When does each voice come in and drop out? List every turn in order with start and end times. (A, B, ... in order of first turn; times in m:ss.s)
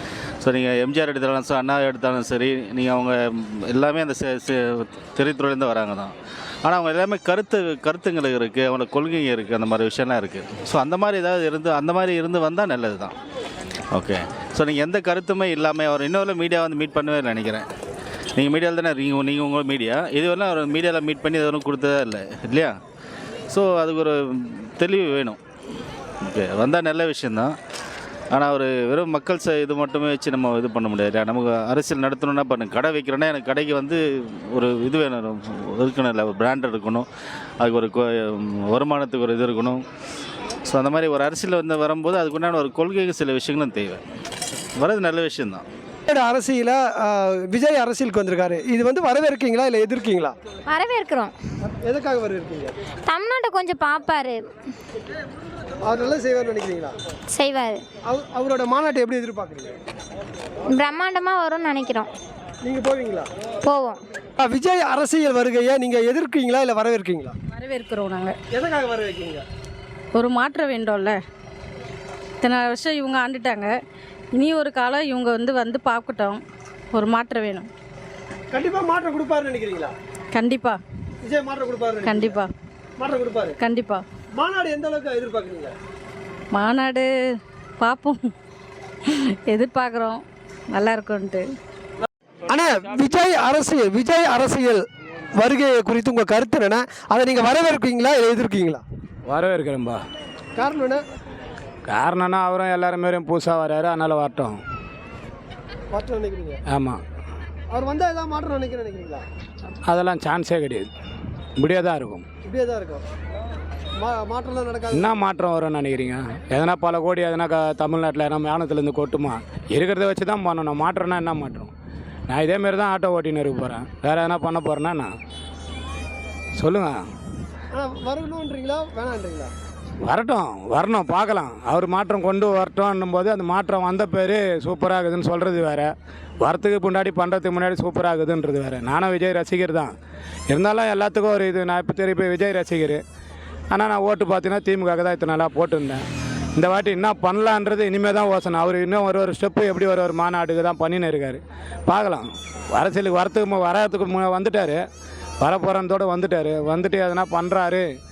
0:00.4-0:13.1 A
0:13.9-0:17.7 A
0:18.3-0:22.8 A
0:23.5-0:25.4 A
0:26.2-0:27.6 A
0:28.3-0:37.1 A
0:37.6-0:39.8 A
0:40.6-0:44.0 A
0:44.8-0:45.6 A
0:46.1-0:50.3 B
0:50.7-0:51.3 C
0:51.6-0:52.7 B
0:53.0-0:54.4 C
0:55.8-0:56.9 B
0:57.3-0:57.8 C
0:58.1-0:59.7 B
1:00.7-1:02.1 C
1:02.6-1:03.3 B
1:03.6-1:04.0 C
1:04.4-1:07.3 B
1:07.5-1:08.4 D
1:08.5-1:09.4 B
1:10.1-1:11.2 D
1:12.4-1:13.7 D
1:14.4-1:16.4 D
1:16.9-1:17.7 D
1:18.5-1:19.9 B
1:20.3-1:20.8 D
1:21.2-1:22.4 B
1:22.0-1:22.5 D
1:23.0-1:23.6 B
1:23.6-1:24.0 D
1:24.4-1:25.7 B
1:26.5-1:27.1 D
1:27.8-1:28.2 D
1:29.0-1:31.4 D
1:32.5-1:34.8 B
1:35.3-1:38.8 B
1:39.3-1:40.0 E
1:40.6-1:41.0 B
1:41.9-1:44.6 E
1:45.9-1:46.6 B
1:46.7-1:47.0 E
1:47.7-1:49.2 B
1:49.9-1:50.9 E
1:51.6-1:52.2 E
1:52.4-1:53.0 B
1:54.0-1:55.1 B
1:54.9-2:01.7 E
2:02.3-2:05.1 E
2:06.6-2:07.0 E
2:07.7-2:09.5 B
2:10.0-2:19.9 E
2:20.5-2:23.0 E
2:23.7-2:26.0 E
2:26.6-2:34.8 E
2:35.4-2:37.9 E